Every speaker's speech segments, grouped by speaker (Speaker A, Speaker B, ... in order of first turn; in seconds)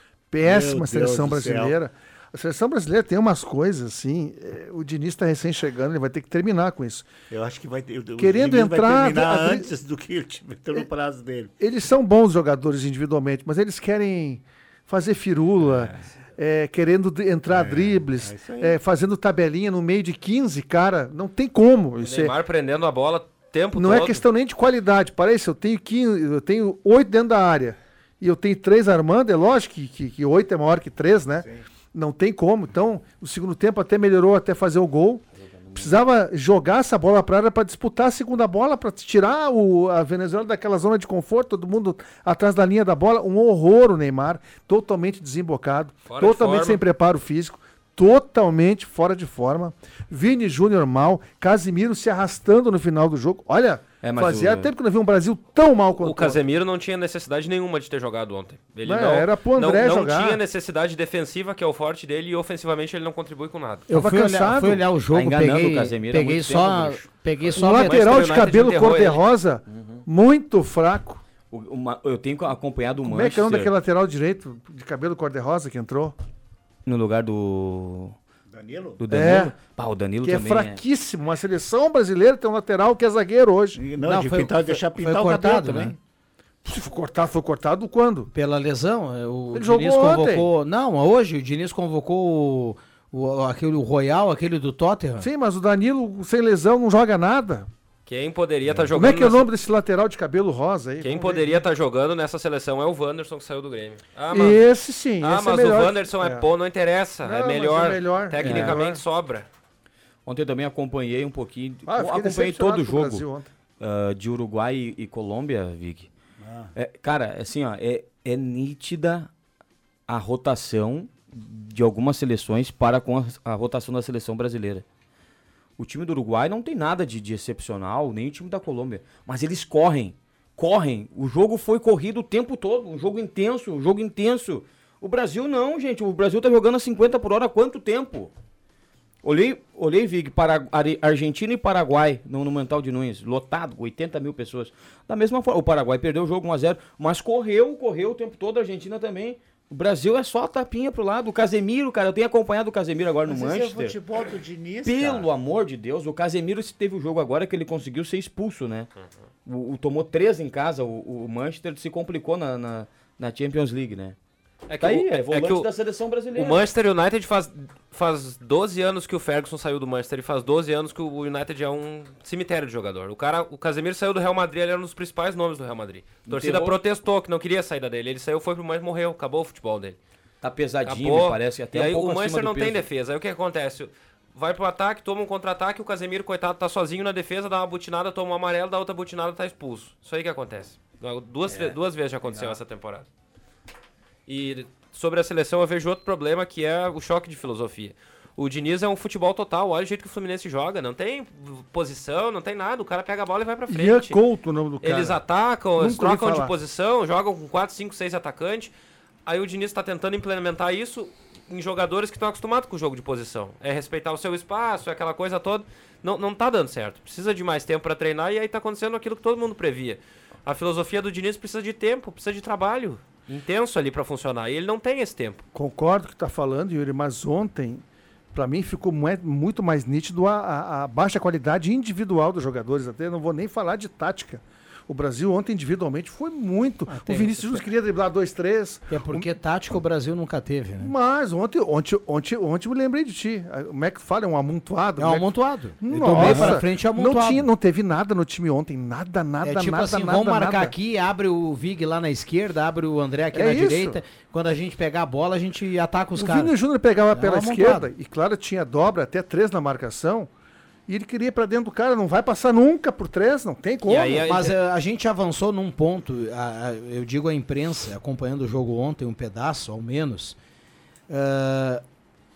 Speaker A: 0.3-7.1, 8.2-9.7, 11.6-22.3, 23.8-35.2, 35.8-56.4, 58.8-60.4, 63.9-64.8, 67.6-71.2, 73.0-76.2, 79.1-79.5, 80.2-83.8, 86.6-88.3, 89.5-90.5, 95.2-97.7, 98.9-101.7, 104.3-106.5, 107.2-109.0, 111.9-113.5, 203.7-205.2, 205.8-206.5, 225.5-239.3, 240.8-250.7, 253.3-254.0, 256.2-260.3, 260.9-264.3
Speaker B: 0.4-1.7, 7.3-11.5, 15.6-16.1, 17.5-18.8, 78.5-79.0, 83.8-86.0, 116.4-116.7, 153.3-155.3, 245.9-246.6
Speaker C: 22.0-24.2, 46.1-46.8, 56.0-63.9, 67.6-69.2, 98.1-99.5, 101.0-104.6, 105.2-109.5, 164.7-165.7, 166.3-180.0, 180.8-193.1, 194.3-204.2, 204.8-208.7, 209.3-225.4, 263.9-264.6
Speaker D: 35.4-36.0, 54.0-54.7, 65.1-67.1, 69.7-70.0, 71.5-73.7, 76.9-78.2, 79.0-80.8, 108.4-108.8, 110.3-113.2, 113.8-116.1, 116.8-119.3, 120.1-124.8, 125.8-138.3, 139.2-154.0, 154.8-158.9, 159.5-164.2, 164.8-166.7, 176.2-176.8, 180.4-182.9
Speaker E: 63.9-68.0, 84.0-86.0, 88.3-95.3, 236.9-237.6, 238.9-240.9, 245.0-247.5, 249.4-256.6, 257.1-257.9, 264.3-270.4, 271.1-271.8